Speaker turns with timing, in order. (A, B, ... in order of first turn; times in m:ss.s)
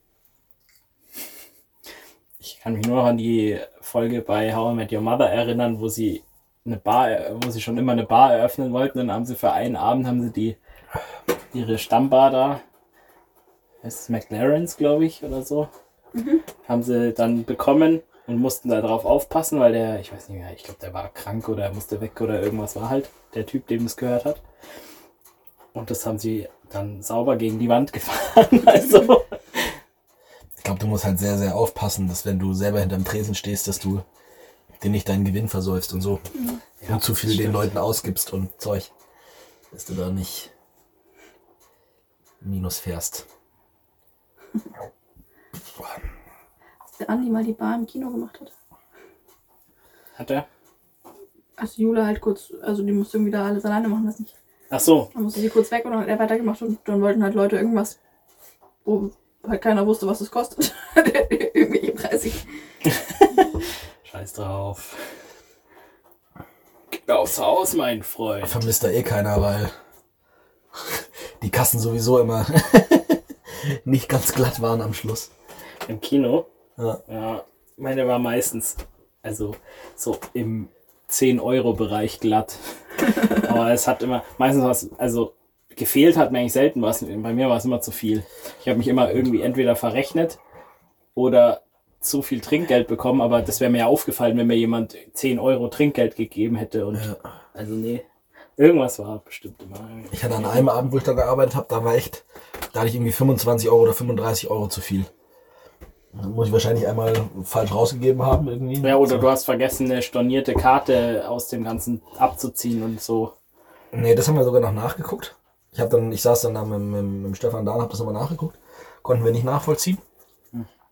0:02.4-0:10.6 A
0:11.5-0:12.6 A
0:13.8-0:15.7 A
0:16.1-0:16.4 B
0:16.6-0:24.4 A
0:25.7-0:29.7 A
0:30.6-0:34.0 C
0:34.8-0:36.2 C
0:36.8-0:37.8 A
0:36.9-0:38.9 C
0:39.7-0:40.5 C
0:42.4-0:43.2 C
0:47.0-0:48.5 B
0:50.1-0:50.4 A
0:51.6-0:54.3 B
0:54.7-0:55.1 A
0:55.1-0:58.0 B
0:58.8-1:02.4 B
1:02.9-1:03.4 A
1:04.0-1:05.0 A
1:07.0-1:08.7 A
1:08.4-1:09.7 C
1:10.8-1:15.3 C
1:15.8-1:16.4 A
1:17.1-1:30.4 A
1:31.1-1:38.0 A
1:38.6-1:40.7 A
1:40.1-1:45.1 C
1:46.1-1:49.3 C
1:48.8-1:53.3 A
1:53.9-2:00.0 C